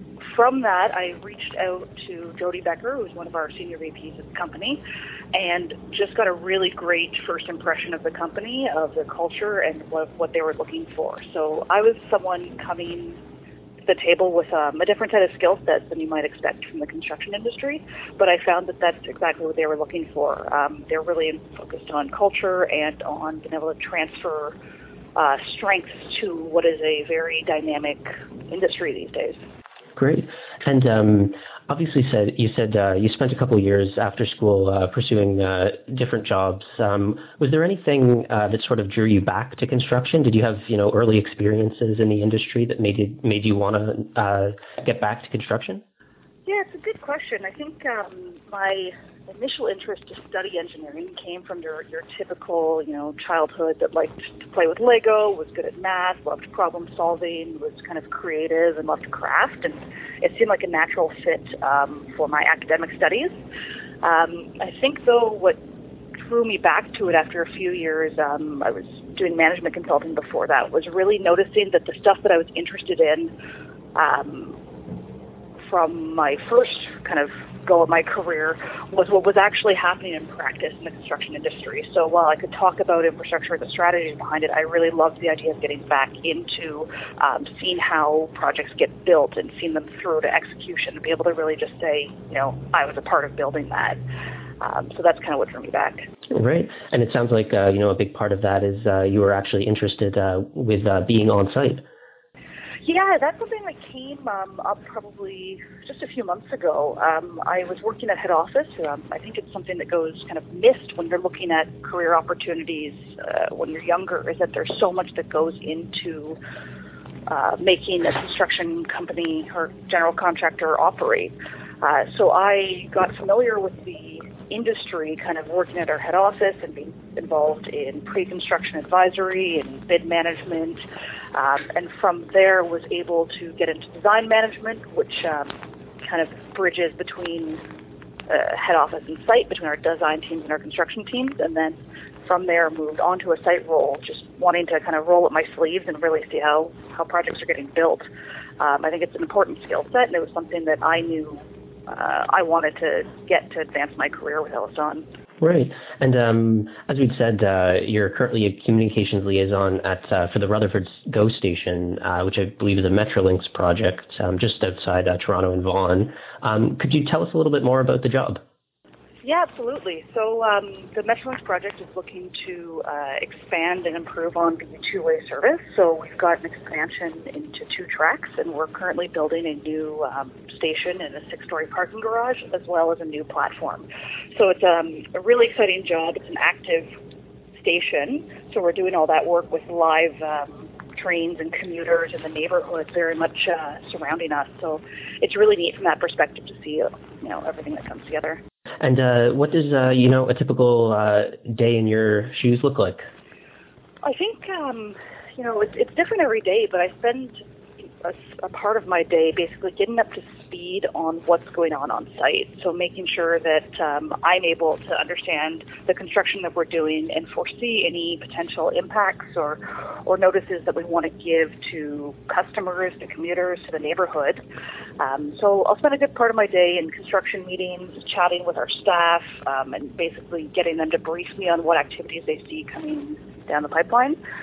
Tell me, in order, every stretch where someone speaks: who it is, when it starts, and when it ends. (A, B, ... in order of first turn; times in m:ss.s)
0:00.2-0:04.8 A
0:05.3-0:13.2 A
0:13.8-0:24.6 A
0:25.1-0:29.4 A
0:30.0-0:45.8 B
0:46.4-1:03.4 A
1:04.0-1:05.6 A
1:06.2-1:13.3 A
1:13.9-1:14.6 A
1:15.6-1:34.0 A
1:34.6-1:36.1 A
1:36.3-1:41.8 B
1:42.8-1:56.4 A
1:57.3-2:10.8 A
2:11.3-2:17.6 A
2:18.3-2:28.1 A
2:28.6-2:35.0 A
2:35.4-2:48.4 B
2:49.2-3:06.9 A
3:07.5-3:18.4 A
3:18.8-3:23.0 B
3:24.0-3:27.4 A
3:28.0-3:44.4 A
3:45.0-3:54.2 A